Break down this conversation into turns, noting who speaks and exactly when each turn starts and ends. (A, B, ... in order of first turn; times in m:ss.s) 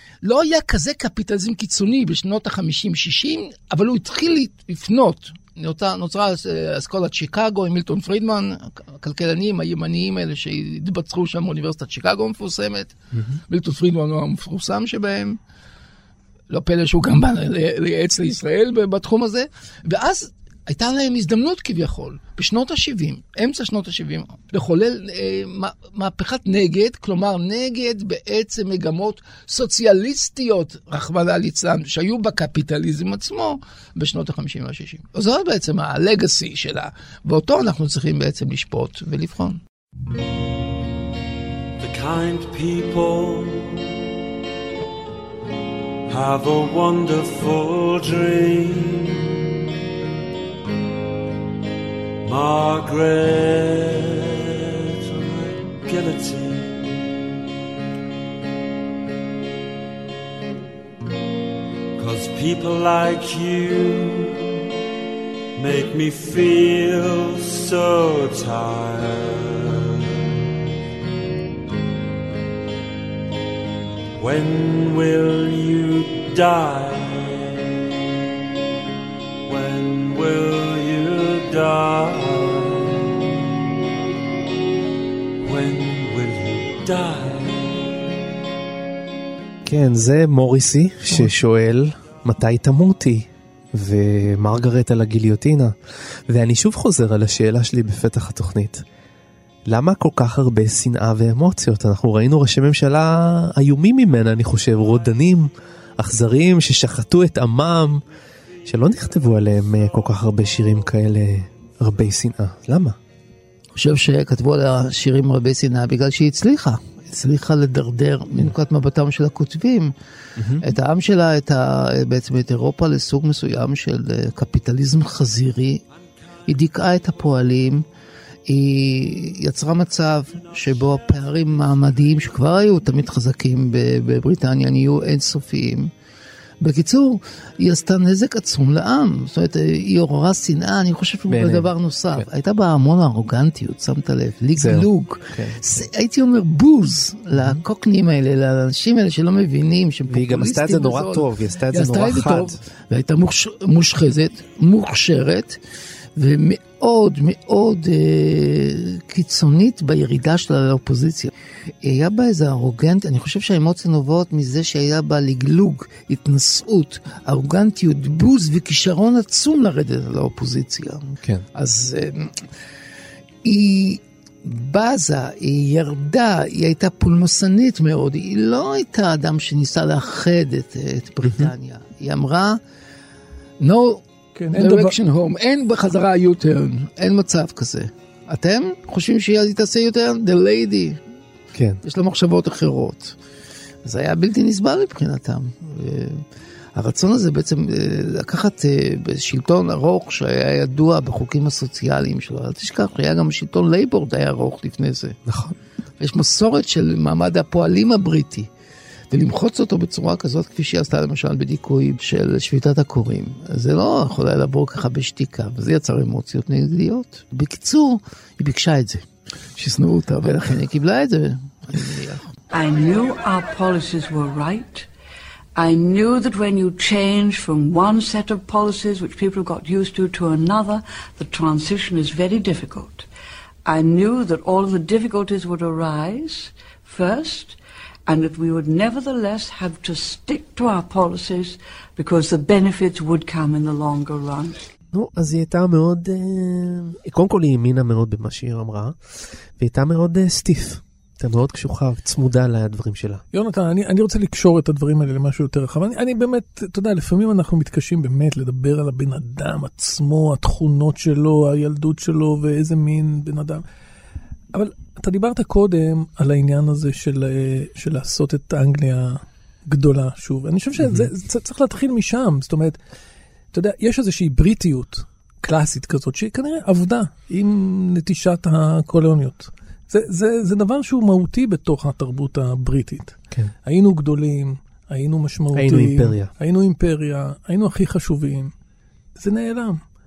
0:00.2-0:13.0 A
0:13.5-0:15.4 A
0:16.5-0:39.6 A
0:41.8-0:43.9 B
0:46.1-0:49.3 B
0:52.2-0:56.9 B
1:02.0-1:04.6 B
1:05.6-1:10.1 B
1:14.2-1:17.8 B
1:19.5-1:23.2 B
1:25.4-1:28.0 B
1:29.7-1:35.8 C
1:36.3-1:38.8 C
1:39.7-1:48.0 C
1:48.6-1:53.0 C
1:53.8-1:59.9 A
2:00.4-2:00.6 C
2:00.6-2:05.8 A
2:06.5-2:07.8 A
2:08.5-2:15.9 A
2:16.6-2:35.6 A
2:21.3-2:22.3 C
2:24.6-2:25.6 C
2:27.4-2:27.6 C
2:30.1-2:32.6 C
2:36.2-2:41.3 A
2:41.8-2:52.4 A
2:53.4-3:02.6 A
3:01.2-3:01.5 C
3:03.6-3:11.0 A
3:04.4-3:05.0 D
3:11.5-3:11.8 C
3:11.8-3:13.2 A
3:13.8-3:16.2 A
3:16.8-3:25.2 A
3:25.3-3:25.5 C
3:26.0-3:28.5 A
3:29.1-3:39.0 A
3:39.6-3:42.2 A
3:42.5-3:44.9 E
3:45.6-3:53.1 E
3:53.6-4:04.7 E
4:04.9-4:13.2 C
4:13.3-4:23.6 D
4:24.5-4:32.8 D
4:30.8-4:31.1 C
4:33.5-4:48.5 D
4:45.6-4:46.3 C
4:49.2-4:49.8 D